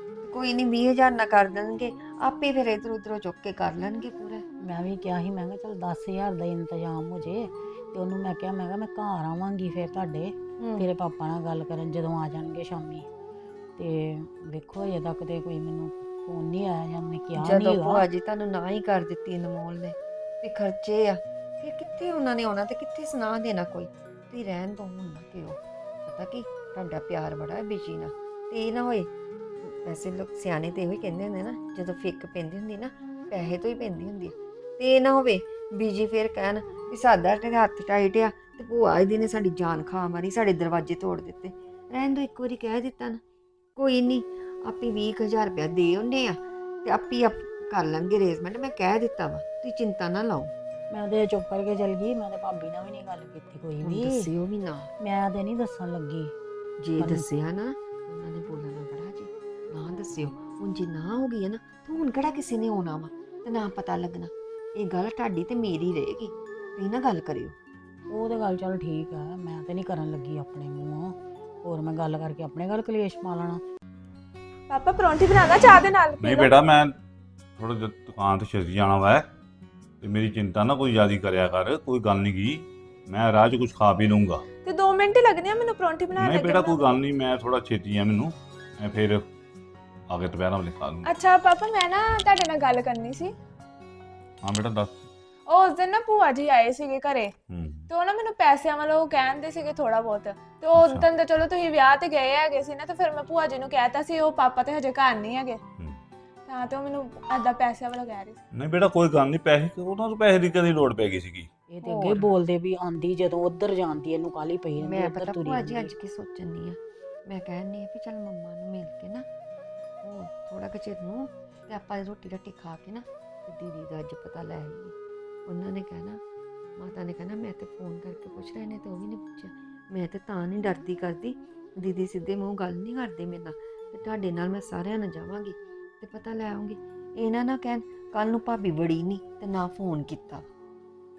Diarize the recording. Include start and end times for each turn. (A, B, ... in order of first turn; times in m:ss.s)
0:00.2-0:04.4 A
0:04.6-0:13.1 B
0:10.6-0:10.9 A
0:13.8-0:18.0 B
0:17.3-0:29.1 A
0:29.6-0:43.2 A
0:43.8-0:50.5 A
0:50.9-0:54.3 B
0:53.8-0:54.9 A
0:55.0-0:56.3 B
0:56.8-1:07.5 A
0:57.0-0:57.2 B
1:08.1-1:13.6 B
1:14.7-1:16.6 C
1:16.2-1:16.9 D
1:17.6-1:19.2 D
1:20.0-1:24.4 D
1:24.6-1:27.0 C
1:26.1-1:29.2 D
1:30.1-1:31.1 D
1:31.0-1:33.3 C
1:34.4-1:35.0 D
1:35.5-1:37.3 C
1:37.5-1:37.8 D
1:37.9-1:45.6 C
1:40.7-1:41.1 D
1:46.5-1:48.4 C
1:48.5-1:51.5 D
1:51.7-1:55.9 B
1:51.8-1:52.3 A
1:54.8-1:59.2 A
2:00.0-2:04.9 A
2:05.5-2:06.2 A
2:06.8-2:20.4 A